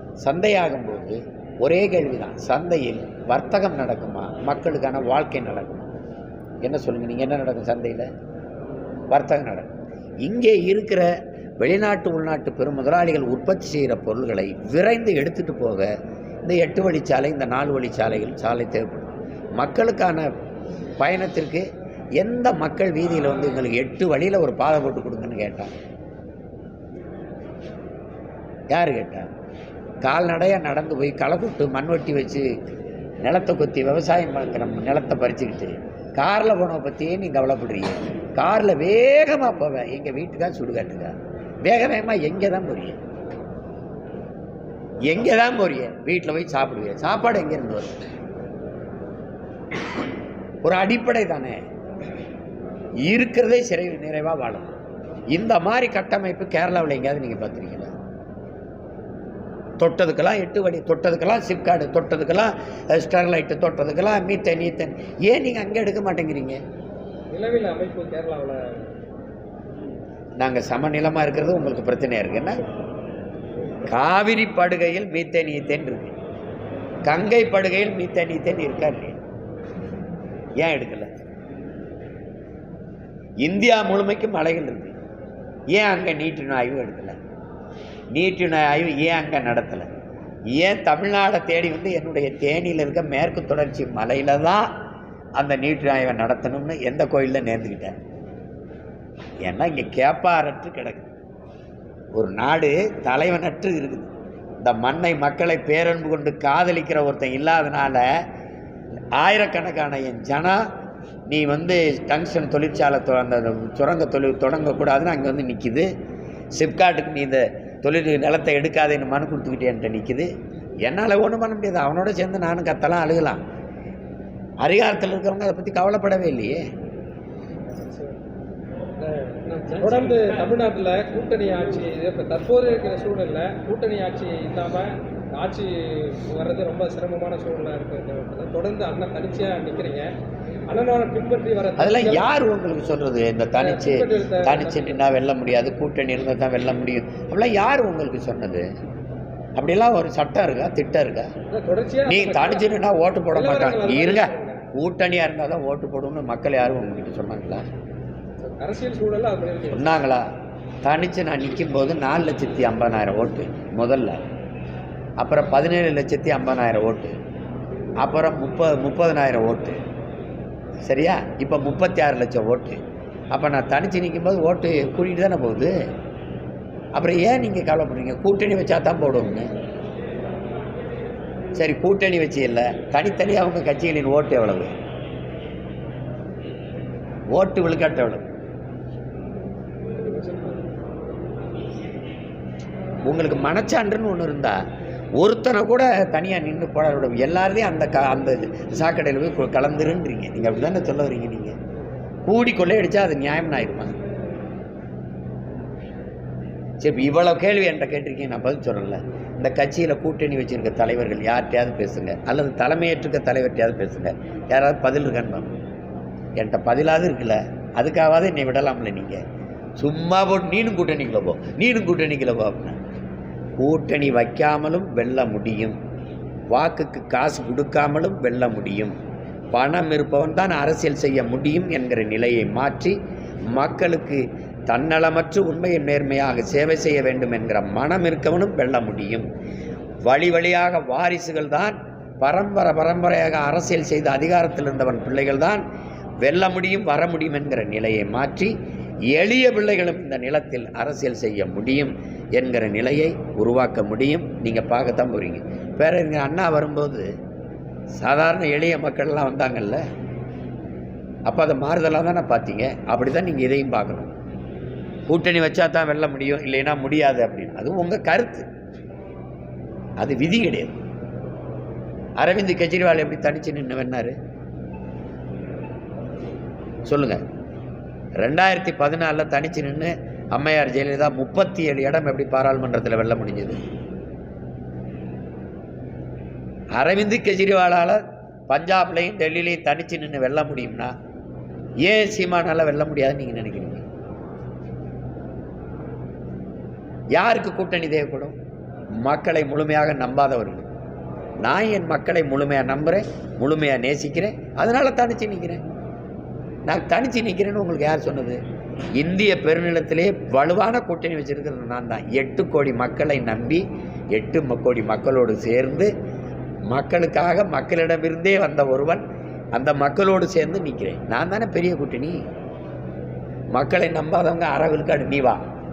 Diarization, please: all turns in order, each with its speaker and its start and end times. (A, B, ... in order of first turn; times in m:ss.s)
0:00.2-0:05.9 A
0:06.6-0:08.1 A
0:09.1-0:09.7 A
0:10.2-0:11.1 A
0:11.6-0:15.9 A
0:16.4-0:20.3 A
0:21.0-0:21.6 A
0:22.2-0:25.7 A
0:28.7-0:29.3 A
0:30.0-0:32.5 A
0:33.2-0:43.0 A
0:45.0-0:47.9 A
0:50.6-0:51.6 A
0:53.0-0:54.7 A
0:55.3-0:57.9 A
0:59.8-1:06.6 A
1:07.3-1:08.6 B
1:10.4-1:12.6 A
1:13.9-1:16.1 A
1:17.0-1:19.2 A
1:20.6-1:21.2 A
1:23.4-1:24.9 A
1:25.7-1:27.2 A
1:28.1-1:29.9 A
1:30.5-1:34.7 A
1:35.4-1:38.0 A
1:39.4-1:41.1 A
1:42.2-1:48.2 A
1:49.2-1:50.7 A
1:51.3-1:55.9 A
1:56.5-2:00.3 A
2:00.8-2:03.4 A
2:04.6-2:06.6 A
2:07.7-2:08.2 B
2:09.0-2:20.1 B
2:20.7-2:22.3 B
2:21.8-2:28.7 A
2:23.6-2:25.0 B
2:29.6-2:31.3 A
2:31.5-2:32.7 B
2:32.0-2:37.6 A
2:33.3-2:34.6 B
2:38.4-2:40.0 B
2:39.7-2:40.2 A
2:40.8-2:44.2 A
2:45.2-2:47.1 A
2:48.0-2:49.8 A
2:50.8-2:52.8 A
2:53.3-2:55.7 A
2:56.9-2:59.5 A
3:01.6-3:04.8 A
3:07.3-3:08.2 A
3:10.0-3:10.6 B
3:13.0-3:14.6 A
3:15.2-3:21.6 A
3:22.3-3:23.9 A
3:26.8-3:35.6 A
3:36.4-3:39.2 A
3:39.8-3:42.8 A
3:43.6-3:45.8 A
3:46.5-3:49.0 A
3:49.5-3:53.0 A
3:53.5-3:59.3 A
4:00.0-4:05.6 A
4:06.2-4:08.6 A
4:09.1-4:17.1 A
4:18.0-4:19.8 A
4:21.3-4:24.1 A
4:25.1-4:28.5 A
4:30.0-4:30.8 A
4:32.2-4:34.2 A
4:36.8-4:37.2 A
4:38.2-4:43.6 A
4:46.7-4:50.9 A
4:51.8-4:53.8 A
4:57.1-4:58.4 A
4:59.0-5:00.7 A
5:01.4-5:05.6 A
5:06.7-5:08.4 A
5:08.9-5:15.9 A
5:16.7-5:22.2 A
5:23.5-5:25.4 A